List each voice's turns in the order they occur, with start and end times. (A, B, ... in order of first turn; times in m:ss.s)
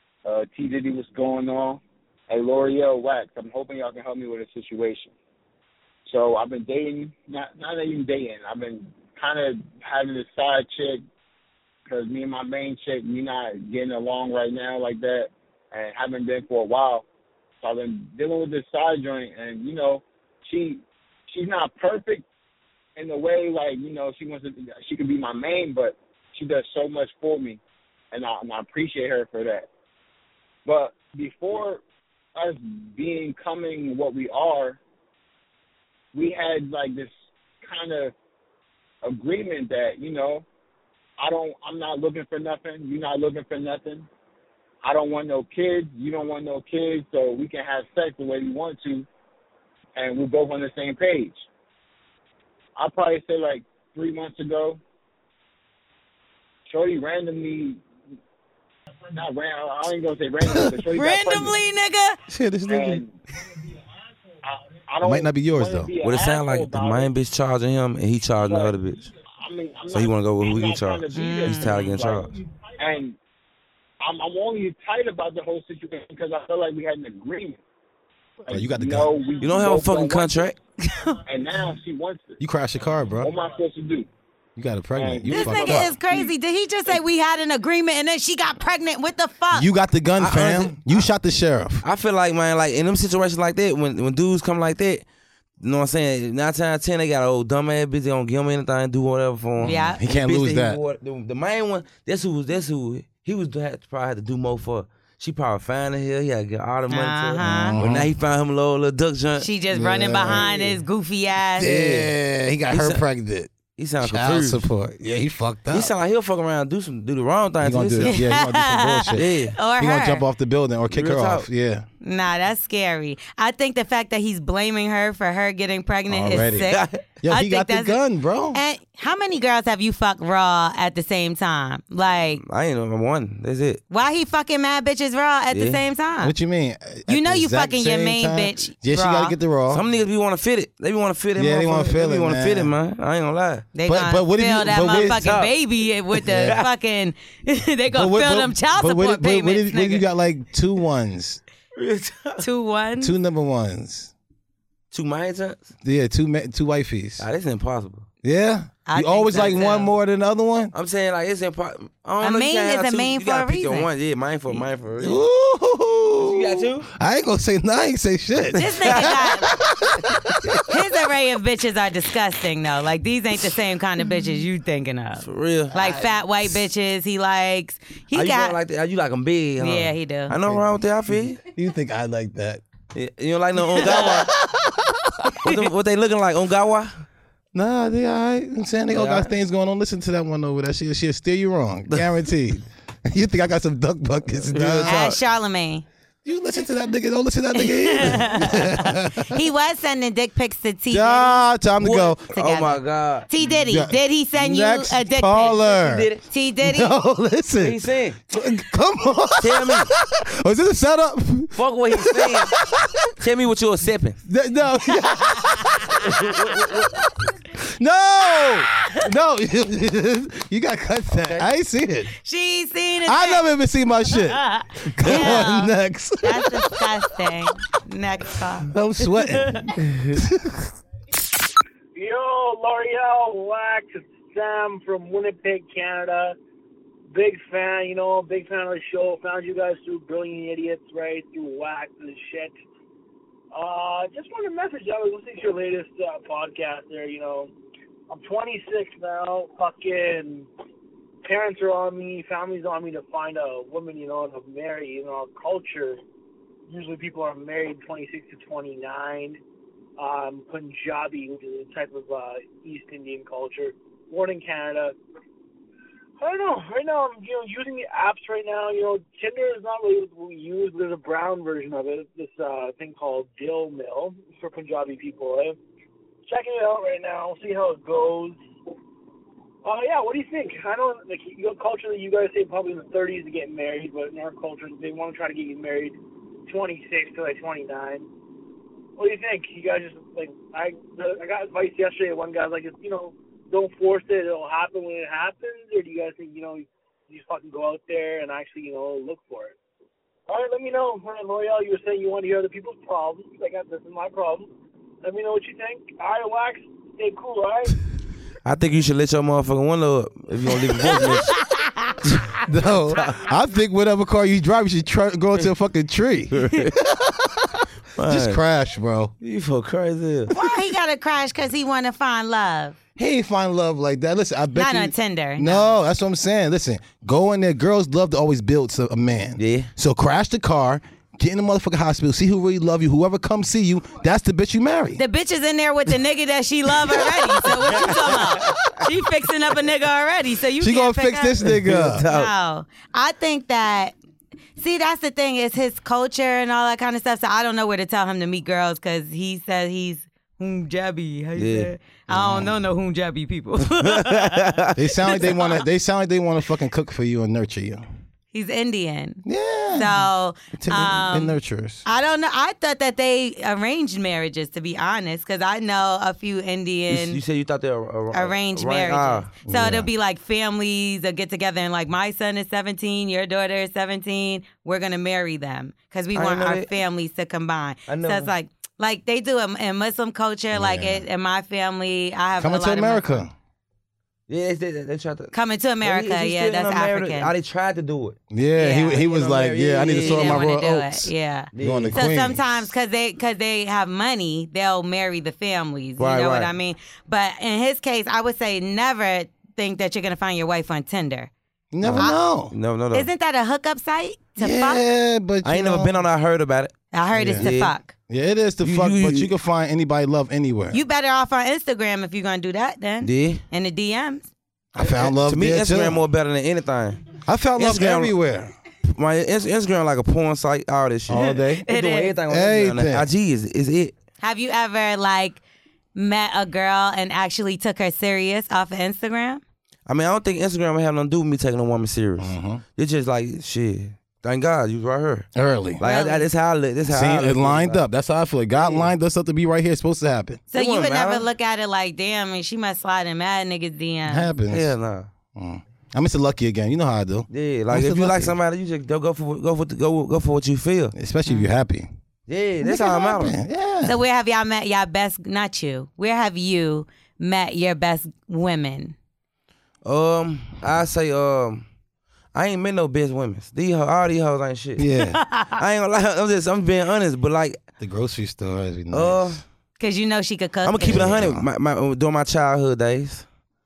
0:00.2-0:05.2 A
0:06.1-0:11.0 A
0:11.9-0:17.1 A
0:17.6-0:22.2 A
0:23.0-0:27.6 A
0:28.1-0:29.7 A
0:30.7-0:31.8 A
0:32.4-0:34.8 A
0:36.1-0:38.1 A
0:39.0-0:40.5 A
0:41.2-0:44.1 A
0:44.8-0:49.1 A
0:50.0-0:51.4 A
0:52.8-0:54.8 A
0:56.7-0:57.8 A
0:59.1-1:01.6 A
1:00.4-1:00.7 B
1:00.9-1:02.2 C
1:02.3-1:03.0 B
1:02.7-1:03.2 A
1:04.4-1:07.1 A
1:05.0-1:05.9 B
1:06.0-1:09.1 D
1:08.4-1:08.7 A
1:09.4-1:13.2 A
1:09.9-1:12.4 D
1:11.1-1:12.0 C
1:14.0-1:17.6 A
1:18.4-1:20.5 A
1:18.5-1:19.1 B
1:19.4-1:20.6 D
1:20.8-1:21.2 C
1:21.3-1:22.4 A
1:22.4-1:23.3 B
1:23.2-1:24.1 A
1:24.6-1:26.0 B
1:25.0-1:26.3 A
1:25.3-1:29.7 C
1:29.5-1:31.8 B
1:30.2-1:31.1 D
1:31.8-1:35.0 D
1:35.6-1:49.5 D
1:39.6-1:40.0 C
1:39.6-1:40.8 B
1:46.9-1:47.8 C
1:47.4-1:48.1 B
1:49.4-1:51.7 C
1:49.7-1:50.5 B
1:50.3-1:50.8 D
1:51.6-1:55.9 B
1:51.6-1:52.1 D
1:52.7-1:53.0 D
1:53.8-1:54.7 D
1:55.7-1:58.2 D
1:57.6-2:01.9 B
1:58.1-2:00.3 C
1:59.2-1:59.6 D
2:00.9-2:01.5 D
2:02.0-2:08.0 C
2:06.1-2:08.6 B
2:06.7-2:07.0 D
2:08.5-2:12.4 C
2:12.4-2:13.8 D
2:13.9-2:16.3 C
2:15.5-2:15.8 D
2:16.2-2:19.8 B
2:17.1-2:19.4 C
2:19.7-2:23.7 D
2:21.4-2:22.7 B
2:23.7-2:30.1 C
2:23.9-2:25.4 B
2:25.0-2:25.5 D
2:26.2-2:26.6 B
2:26.3-2:26.7 D
2:27.9-2:31.4 B
2:31.8-2:32.4 D
2:32.4-2:33.1 C
2:33.0-2:34.1 B
2:34.9-2:35.7 D
2:35.8-2:37.2 B
2:37.2-2:38.1 D
2:38.2-2:40.7 B
2:38.9-2:39.9 C
2:40.7-2:45.2 D
2:42.2-2:43.9 C
2:45.0-2:50.0 B
2:46.2-2:46.9 D
2:48.6-2:49.5 C
2:48.9-2:49.2 D
2:50.7-2:58.6 C
2:55.2-2:55.7 D
2:55.7-2:56.1 B
2:58.1-3:01.4 D
2:59.6-3:00.3 C
3:01.4-3:02.6 B
3:02.9-3:04.3 D
3:03.8-3:05.4 B
3:05.4-3:07.0 D
3:07.5-3:15.2 B
3:08.9-3:09.3 D
3:14.5-3:15.2 D
3:14.9-3:15.8 C
3:16.2-3:19.4 B
3:17.6-3:21.5 C
3:20.9-3:22.4 B
3:21.8-3:23.3 D
3:22.3-3:25.6 C
3:23.4-3:26.1 B
3:25.6-3:26.2 D
3:26.3-3:26.9 C
3:26.6-3:33.0 B
3:27.6-3:28.2 D
3:29.4-3:29.9 D
3:31.6-3:32.6 D
3:33.2-3:34.2 D
3:34.3-3:36.9 B
3:36.0-3:36.9 D
3:37.5-3:42.1 B
3:41.1-3:41.5 D
3:42.2-3:43.5 C
3:43.1-3:46.9 B
3:44.2-3:49.7 C
3:45.0-3:45.5 D
3:48.7-3:50.7 B
3:49.8-3:50.2 D
3:52.0-3:56.4 E
3:57.1-4:02.5 E
4:03.5-4:07.5 E
4:08.1-4:10.5 E
4:11.2-4:16.0 E
4:16.7-4:19.4 E
4:20.0-4:25.0 E
4:26.2-4:35.6 E
4:36.3-4:38.4 E
4:39.6-4:48.1 E
4:49.0-4:59.6 E
5:00.3-5:04.5 E
5:05.0-5:07.8 E
5:08.4-5:11.4 D
5:10.9-5:11.9 C
5:12.4-5:19.1 B
5:16.3-5:16.7 D
5:18.0-5:18.4 D
5:19.2-5:20.3 D
5:20.3-5:22.8 C
5:23.0-5:35.0 B
5:24.6-5:25.8 C
5:29.4-5:29.7 D
5:35.0-5:41.5 C
5:37.7-5:38.5 D
5:40.6-5:42.1 B
5:41.4-5:42.3 D
5:42.1-5:44.0 C
5:44.6-5:54.6 C
5:51.4-5:51.7 D
5:52.1-5:52.6 B
5:53.8-5:54.8 D
5:54.8-5:57.8 B
5:55.1-5:55.6 C
5:58.3-5:59.2 C
5:59.2-6:01.9 B
5:59.7-6:07.2 C
6:06.9-6:09.3 D
6:08.1-6:23.2 C
6:09.4-6:09.9 B
6:16.2-6:16.7 D
6:17.9-6:18.3 D
6:20.5-6:21.0 B
6:22.4-6:23.3 B
6:24.3-6:28.2 D
6:25.3-6:27.3 C
6:28.3-6:32.7 B
6:28.6-6:29.1 C
6:29.0-6:30.5 D
6:30.0-6:41.3 C
6:31.6-6:32.0 D
6:36.0-6:36.5 D
6:41.7-6:42.5 B
6:41.8-6:43.1 D
6:42.9-6:44.8 C
6:44.4-6:46.0 B
6:45.4-6:46.8 D
6:46.9-6:47.9 C
6:47.2-6:47.5 B
6:47.3-6:47.8 D
6:48.1-6:50.8 B
6:48.6-6:49.3 D
6:50.7-6:54.2 C
6:53.0-6:53.4 D
6:54.8-6:56.0 B
6:54.8-6:57.0 D
6:57.2-6:58.5 B
6:57.6-6:58.1 D
6:59.0-7:03.9 D
7:01.1-7:01.6 B
7:01.2-7:02.1 C
7:02.3-7:03.1 B
7:04.2-7:05.4 C
7:06.0-7:09.4 C
7:09.9-7:17.8 D
7:12.2-7:12.6 B
7:15.4-7:15.8 B
7:15.8-7:16.3 C
7:16.9-7:20.4 B
7:18.6-7:18.9 D
7:20.5-7:24.3 C
7:20.5-7:21.3 D
7:24.1-7:24.7 B
7:24.5-7:25.1 D
7:25.3-7:28.4 B
7:27.3-7:30.9 D
7:30.9-7:31.9 B
7:32.3-7:33.4 D
7:32.6-7:34.0 B
7:33.8-7:39.0 C
7:39.8-7:41.6 D
7:42.3-7:44.8 D
7:44.8-7:45.2 B
7:45.2-7:45.6 C
7:45.6-7:47.6 D
7:47.8-7:49.4 B
7:48.9-7:49.4 D
7:49.8-7:51.1 C
7:50.6-7:53.2 D
7:50.8-7:51.5 B